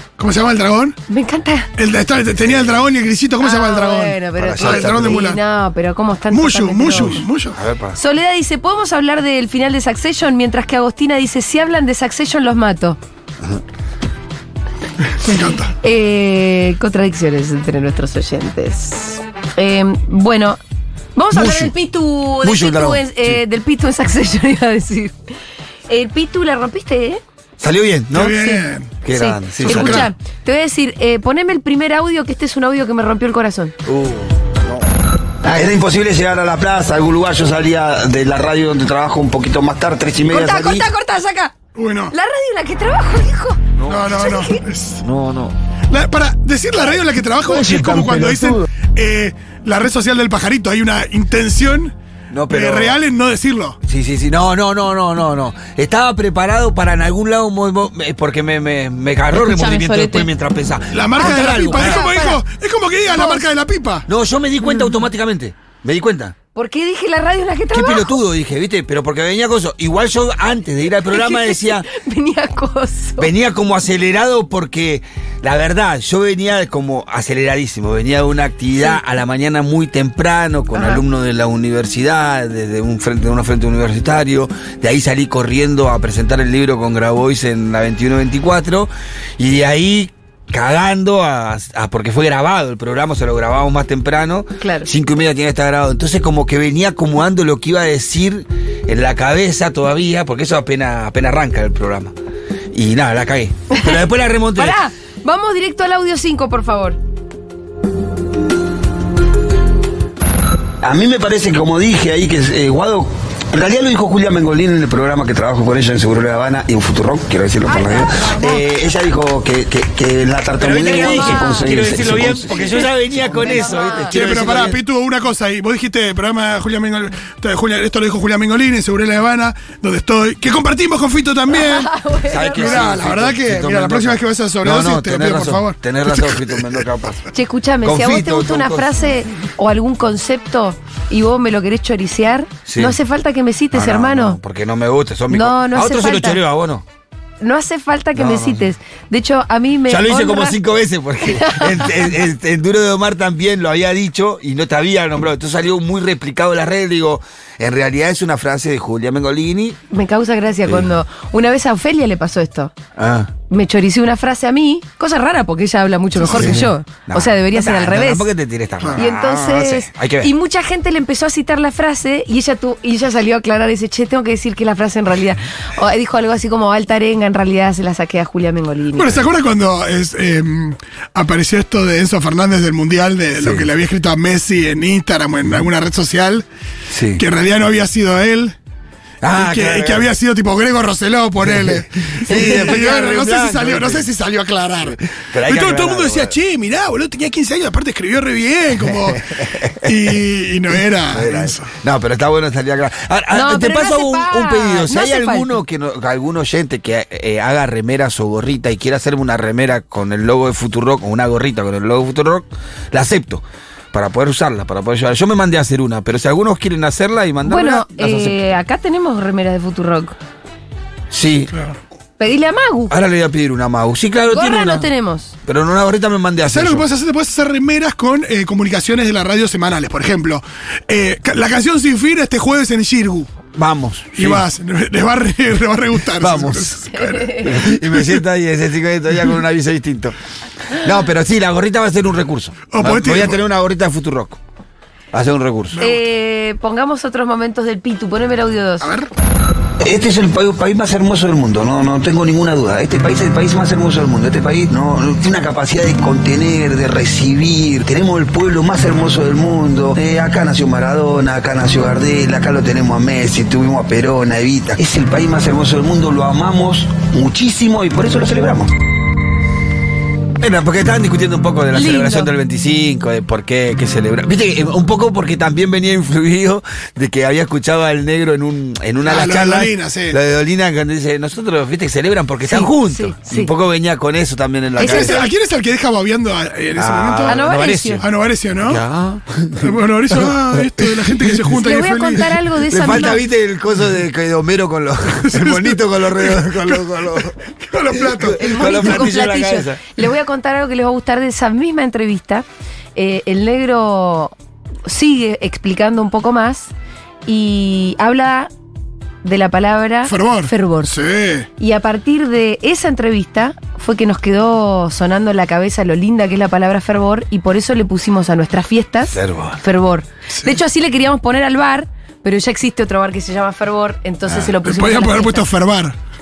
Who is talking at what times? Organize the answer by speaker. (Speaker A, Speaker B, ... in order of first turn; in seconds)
Speaker A: 0.2-1.0, 1.8-5.4, 6.3-7.6, 15.2-15.7, 28.1-28.9, 29.6-30.1, 41.7-42.1, 43.9-45.0, 45.9-51.9, 52.5-53.8, 60.9-64.0, 124.1-131.9, 132.5-136.7, 178.9-186.4, 187.2-188.5, 189.3-201.7, 226.4-233.3, 234.1-238.2, 242.7-243.4, 248.8-249.1, 279.0-280.2, 284.8-287.4, 288.0-288.8, 289.6-292.4, 295.2-299.1, 310.1-311.5, 324.3-326.0
Speaker B: 1.1-1.7, 3.4-7.2, 8.0-13.0, 15.8-20.6, 21.1-25.1, 25.9-27.2, 28.4-33.7, 40.3-41.5, 42.1-44.6, 59.5-60.2, 61.2-62.4, 63.1-63.4, 66.5-68.2, 71.1-73.3, 80.7-81.0, 94.6-94.9, 103.7-104.0, 104.5-107.0, 117.7-118.4, 120.8-121.7, 123.4-124.1, 131.5-132.9, 137.3-144.4, 145.3-146.4, 147.4-150.6, 151.2-152.0, 159.9-162.7, 163.5-168.3, 169.0-179.2, 203.3-205.6, 217.4-220.1, 222.2-222.9, 224.3-225.3, 236.9-237.5, 245.8-248.9, 271.7-272.3, 282.4-283.5, 284.8-285.2, 287.3-288.0, 291.6-293.2, 298.4-302.4, 302.9-304.3, 304.9-306.7, 307.2-308.5, 309.2-310.9, 311.6-325.4
Speaker C: 2.3-2.9, 4.4-5.2, 7.5-8.0, 21.3-21.7, 22.4-23.4, 27.6-28.4, 29.0-30.1, 33.8-34.9, 43.8-44.2, 45.0-45.5, 47.5-48.5, 52.3-53.0, 53.9-62.1, 64.1-66.3, 67.7-71.8, 73.2-102.1, 102.7-104.8, 118.4-118.6, 120.6-124.8, 132.3-137.2, 137.8-139.1, 142.7-143.0, 143.7-146.8, 148.1-148.7, 149.9-159.8, 162.9-163.3, 166.2-170.3, 183.4-183.7, 186.9-187.2, 189.2-190.1, 191.4-194.1, 194.8-196.3, 198.9-200.1, 201.1-218.4, 221.1-221.5, 222.9-224.9, 225.4-226.9, 233.5-234.4, 236.2-240.1, 240.7-244.4, 245.1-245.8, 270.4-285.3, 286.8-288.1, 288.6-291.4, 292.7-297.3, 298.0-299.8, 319.1-319.6
Speaker D: 35.4-40.9, 110.8-122.6, 249.8-268.7